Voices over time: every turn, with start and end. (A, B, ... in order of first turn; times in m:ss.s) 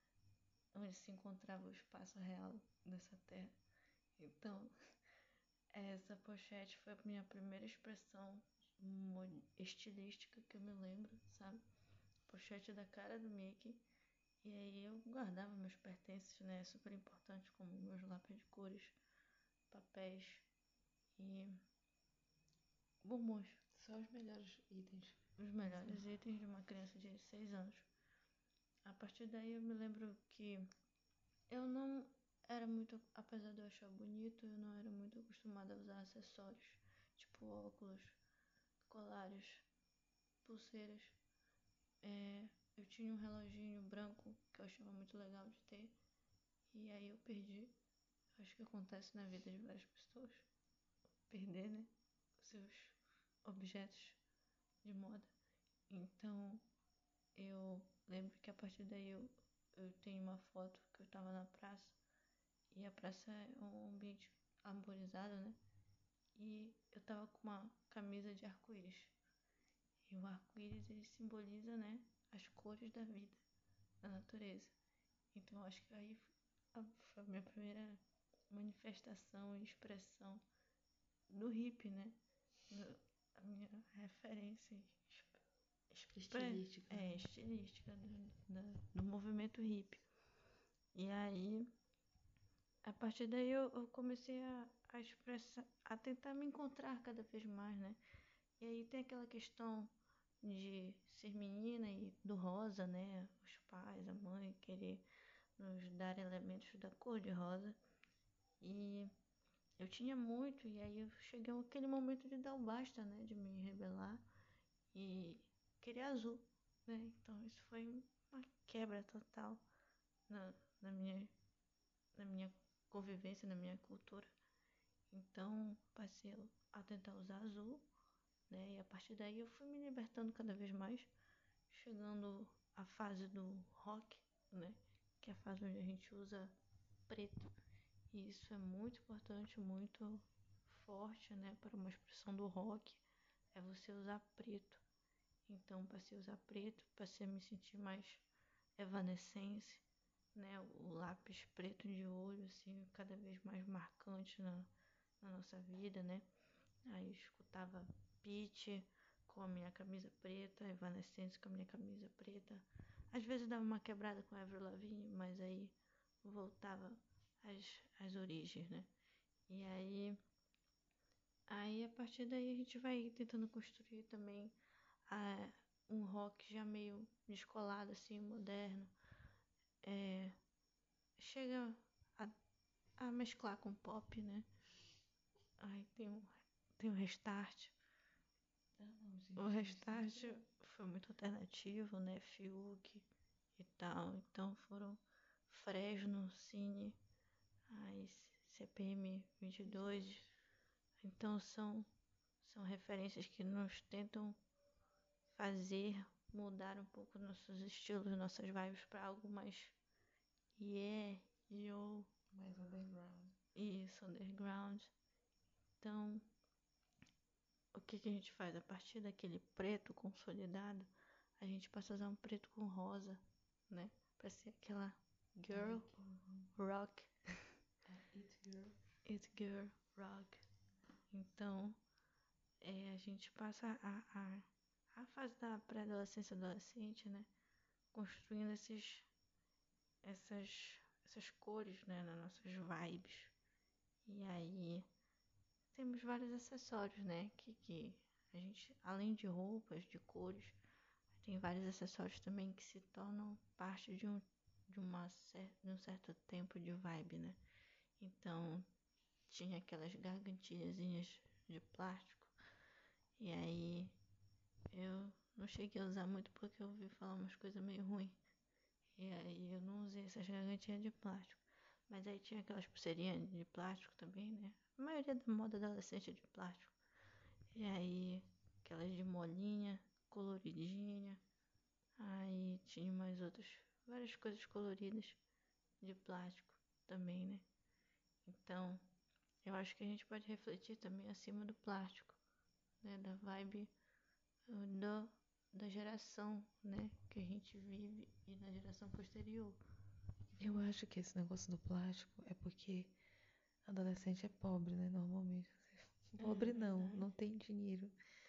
0:00.7-0:03.6 A
0:04.2-0:04.7 A
0:05.7-0:11.6 A
0:12.3-0:13.8 A
0:14.4-0:19.0 A
0:19.7-0:20.5 A
0:21.2-0:21.5 A
0:23.0-0:23.6 A
0:23.7-0:26.0 B
0:25.4-0:27.9 A
0:28.8-0:30.6 A
0:31.5-0:38.2 A
0:38.8-0:39.7 A
0:40.4-0:41.2 A
0:42.0-0:46.0 A
0:46.7-0:47.8 A
0:48.4-0:50.5 A
0:51.3-0:54.2 A
0:54.8-0:55.3 A
0:55.9-0:56.6 A
0:57.3-1:02.0 A
1:02.7-1:05.6 A
1:06.3-1:09.1 A
1:10.0-1:13.4 A
1:14.0-1:14.7 A
1:15.3-1:20.4 A
1:21.3-1:25.4 A
1:25.9-1:30.0 A
1:26.0-1:27.3 B
1:30.9-1:31.7 A
1:32.8-1:38.0 A
1:38.6-1:45.0 A
1:45.6-1:47.8 A
1:48.6-1:49.1 A
1:49.8-1:54.3 A
1:54.9-1:59.6 A
2:00.3-2:01.3 A
2:02.1-2:04.3 A
2:05.1-2:07.9 A
2:08.5-2:11.1 A
2:11.7-2:16.6 A
2:17.1-2:17.5 A
2:18.1-2:23.0 A
2:23.5-2:24.8 A
2:25.5-2:28.2 A
2:28.8-2:36.2 A
2:36.8-2:48.9 A
2:49.5-2:50.2 A
2:51.5-2:54.6 A
2:55.1-2:58.9 A
2:59.8-3:00.4 A
3:01.2-3:02.3 A
3:03.0-3:04.5 A
3:05.6-3:07.8 A
3:08.8-3:10.4 B
3:09.4-3:17.0 A
3:17.7-3:20.2 A
3:19.6-3:20.2 B
3:21.0-3:21.9 A
3:22.4-3:24.4 A
3:25.3-3:29.8 A
3:30.6-3:32.1 A
3:32.3-3:33.4 B
3:33.6-3:34.9 A
3:35.8-3:36.2 A
3:37.7-3:45.9 A
3:45.5-3:46.5 B
3:46.5-3:47.5 A
3:47.8-3:48.8 B
3:49.0-3:50.4 A
3:51.1-3:51.8 A
3:52.6-3:57.3 A
3:57.9-3:59.1 A
4:00.0-4:03.3 A
4:04.0-4:04.9 A
4:05.7-4:10.6 A
4:11.2-4:17.4 A
4:18.0-4:18.7 A
4:19.3-4:22.4 A
4:23.2-4:24.0 A
4:24.7-4:28.2 A
4:29.0-4:36.7 A
4:37.5-4:41.2 A
4:42.0-4:45.2 A
4:45.8-4:47.4 A
4:48.2-4:48.8 A
4:49.4-4:52.2 A
4:52.8-4:53.7 A
4:54.5-4:59.6 A
5:00.3-5:00.7 A
5:00.4-5:03.0 B
5:03.6-5:07.9 B
5:06.2-5:07.1 A